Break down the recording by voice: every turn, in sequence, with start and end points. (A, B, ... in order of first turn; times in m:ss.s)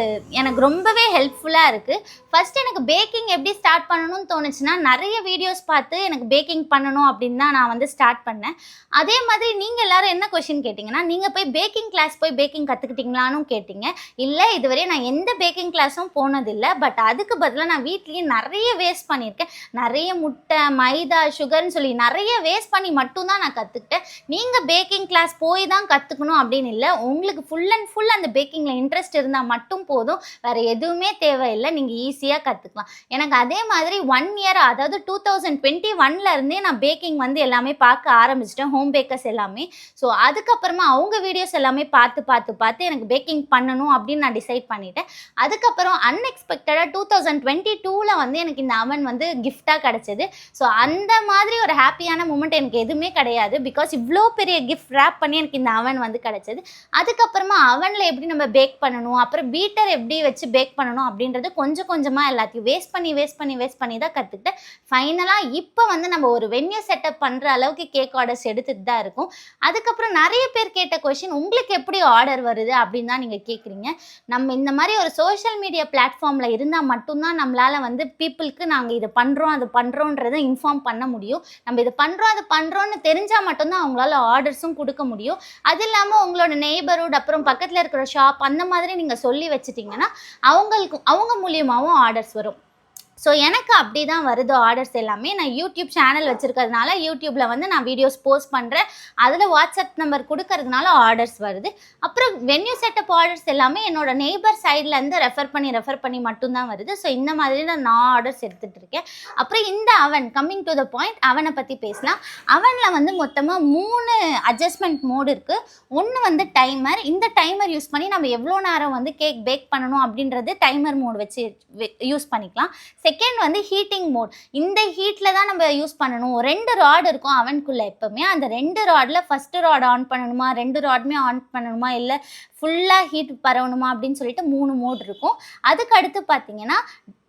0:00.4-1:32.6 A
1:33.2-2:16.8 A